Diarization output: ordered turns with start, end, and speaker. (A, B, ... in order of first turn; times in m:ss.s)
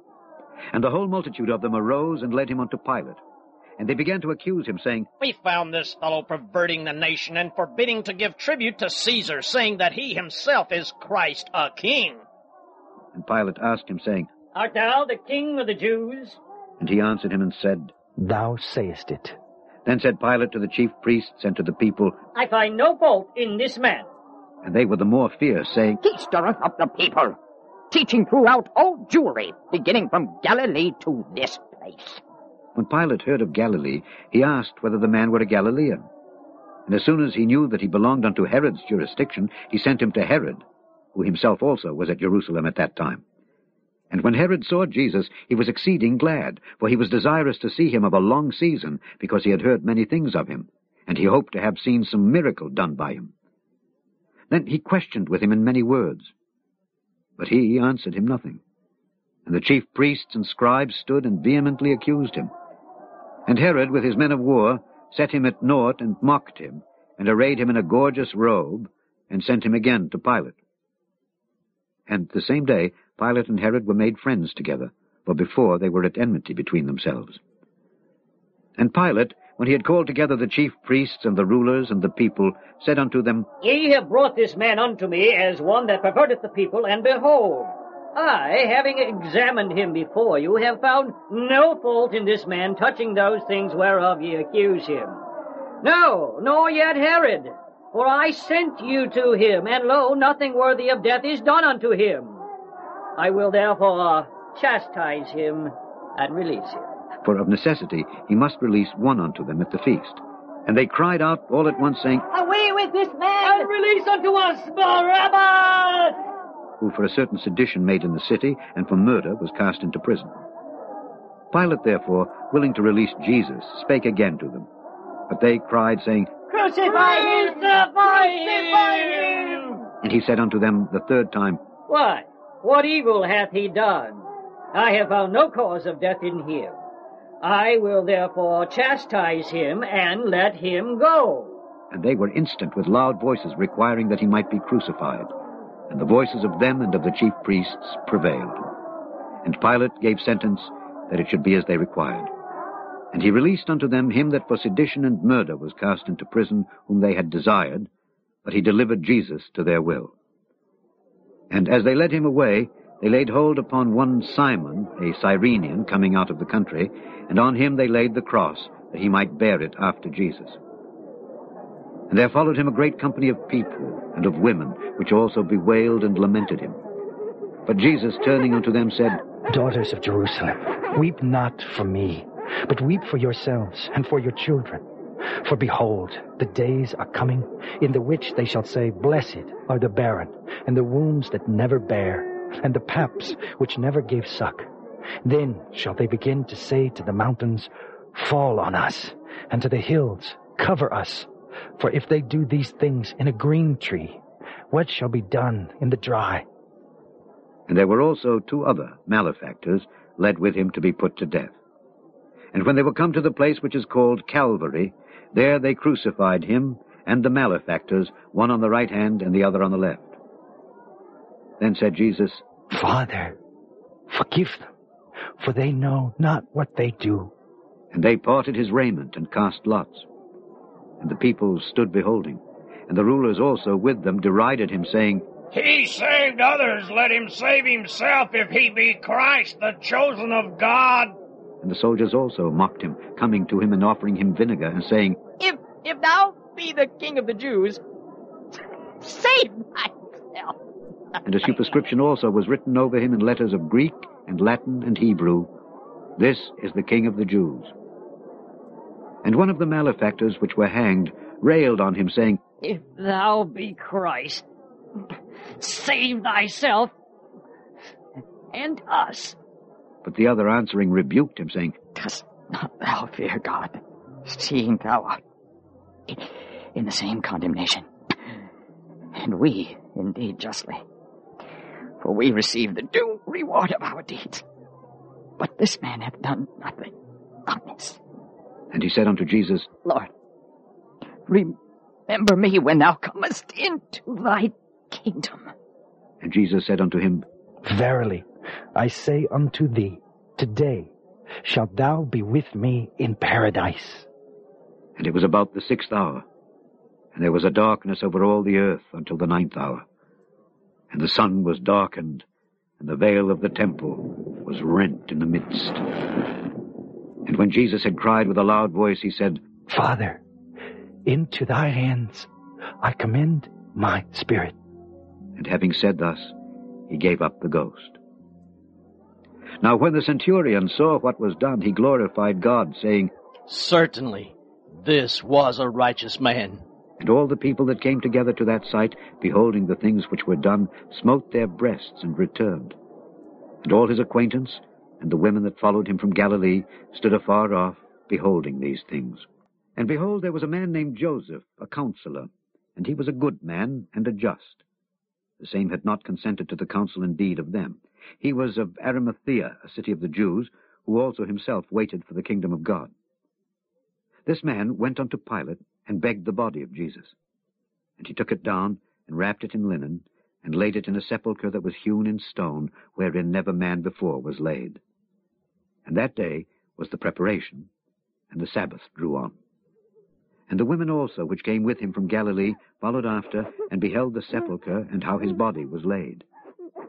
0:00.7-0:03.2 A
0:03.8-0:05.1 A
0:05.2-0:12.2 B
0:13.1-0:14.3 A
0:14.5-0:16.4 C
0:16.8-0:17.9 A
0:18.2-0:19.4 D
0:19.8-0:22.2 A
0:22.3-0:24.1 C
0:24.6-0:26.0 A
0:26.0-0:27.4 E
0:27.9-0:32.2 E
0:32.8-0:36.1 A
0:36.9-0:40.6 A
0:41.2-0:43.2 A
0:44.1-0:53.3 A
0:54.5-0:56.3 A
0:57.4-0:58.6 A
0:59.5-1:02.5 A
1:03.5-1:10.6 A
1:12.1-1:17.4 A
1:18.8-1:23.5 A
1:23.6-1:35.2 C
1:35.8-1:42.4 C
1:43.2-1:46.9 C
1:47.2-1:52.2 A
1:52.3-1:56.2 C
1:56.8-2:00.3 A
2:01.5-2:04.7 A
2:05.3-2:06.3 A
2:06.5-2:09.8 C
2:10.0-2:11.6 A
2:11.9-2:16.8 C
2:17.4-2:21.6 C
2:21.9-2:25.3 A
2:25.9-2:28.6 A
2:29.4-2:32.3 A
2:33.1-2:37.9 A
2:38.4-2:40.1 A
2:41.5-2:50.6 A
2:52.1-2:56.8 A
2:57.7-2:59.2 A
2:59.5-3:04.8 D
3:05.4-3:14.7 D
3:15.2-3:26.5 D
3:27.7-3:31.6 A
3:32.5-3:40.2 A
3:41.6-3:42.4 A
3:42.7-3:43.4 D
3:44.1-3:44.7 D
3:45.4-3:47.3 D
3:47.9-3:50.1 A
3:51.0-3:55.2 A
3:55.5-4:01.2 B
4:01.6-4:05.2 A
4:05.4-4:07.8 E
4:09.0-4:10.6 E
4:11.2-4:15.5 A
4:16.2-4:17.7 A
4:19.2-4:22.4 A
4:22.6-4:24.4 C
4:25.6-4:26.9 C
4:28.5-4:29.4 C
4:30.0-4:31.8 A
4:31.9-4:35.2 E
4:36.1-4:37.9 E
4:39.1-4:40.8 E
4:42.0-4:44.4 E
4:45.4-4:46.9 E
4:47.4-4:48.0 E
4:48.7-4:49.7 A
4:49.8-4:50.1 E
4:51.3-4:51.5 E
4:52.1-4:55.5 E
4:56.2-4:57.2 A
4:57.6-5:00.9 D
5:01.4-5:04.1 D
5:05.0-5:06.2 A
5:07.1-5:09.8 A
5:10.9-5:12.2 A
5:12.8-5:15.8 A
5:17.2-5:19.4 A
5:19.7-5:20.2 D
5:21.1-5:22.3 D
5:22.8-5:24.5 D
5:25.4-5:26.3 A
5:26.9-5:28.0 A
5:29.6-5:33.1 A
5:33.5-5:36.6 B
5:37.0-5:42.8 A
5:43.6-5:49.2 A
5:49.8-5:54.6 A
5:55.4-6:02.9 A
6:04.2-6:07.1 A
6:08.0-6:14.8 A
6:15.8-6:17.7 A
6:18.3-6:19.3 A
6:20.5-6:26.2 A